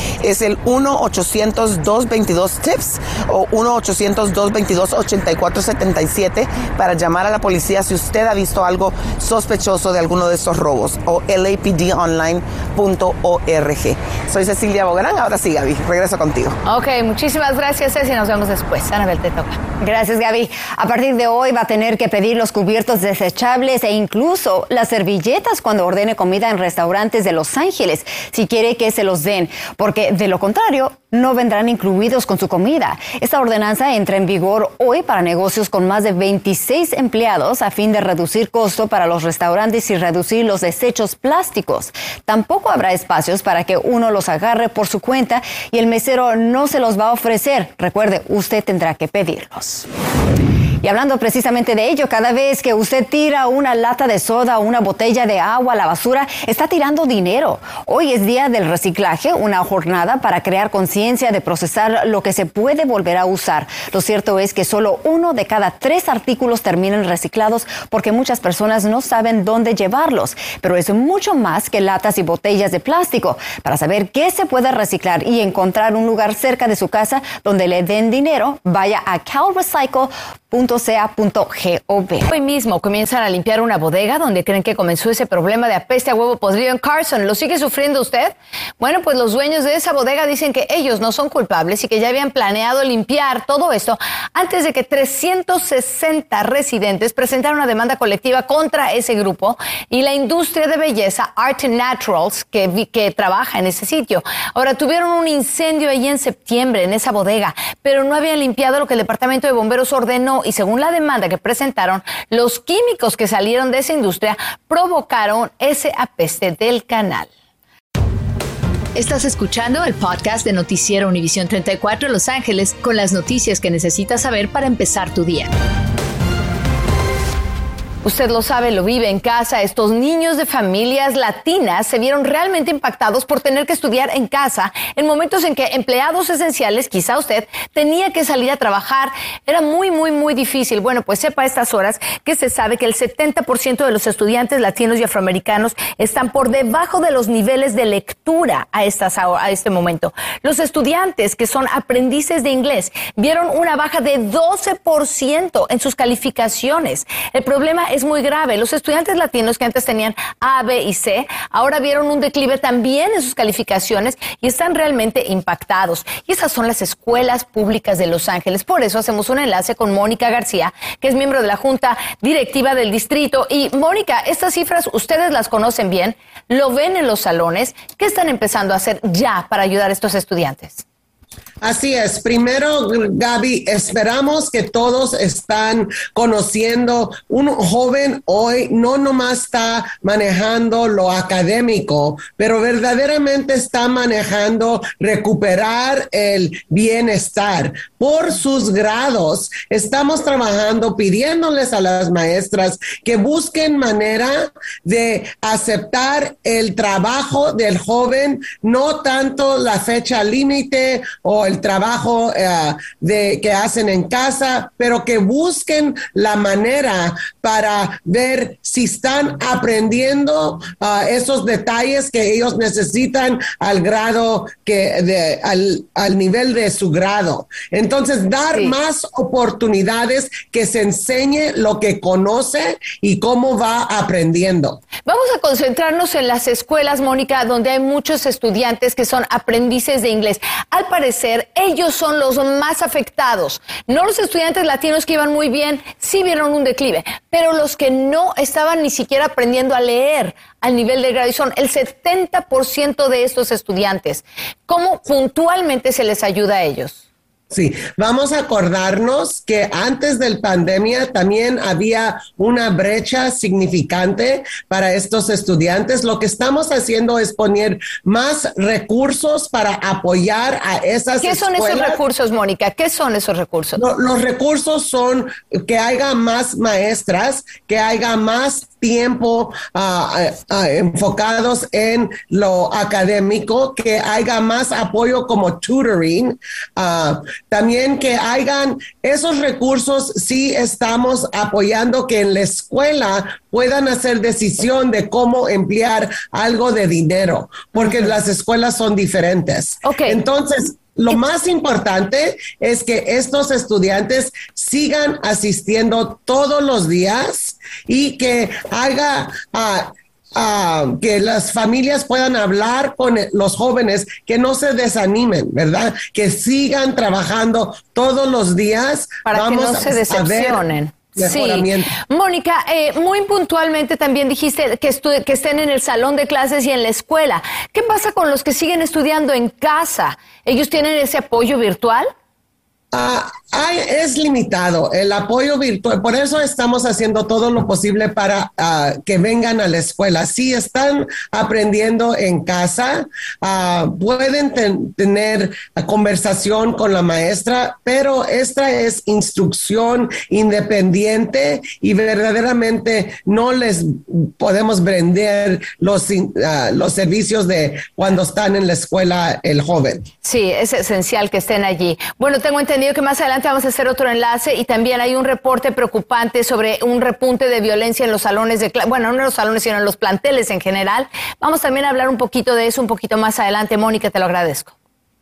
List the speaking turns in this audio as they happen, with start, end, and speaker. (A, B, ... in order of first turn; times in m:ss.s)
0:00.2-0:16.6 A
0:16.6-0:19.6 B
0:19.8-0:49.9 C
0:50.8-1:22.3 C
1:22.3-1:57.3 B
1:59.0-2:05.5 D
2:08.0-3:00.8 B
3:01.6-3:54.8 E
3:55.1-4:17.0 B
4:17.5-4:32.0 E
4:31.2-4:33.8 B
4:33.8-5:20.6 E
4:57.8-4:58.1 B
4:59.8-5:00.2 B
5:19.3-5:32.1 B
5:21.1-5:21.9 E
5:32.9-6:00.1 E
6:00.2-6:14.7 B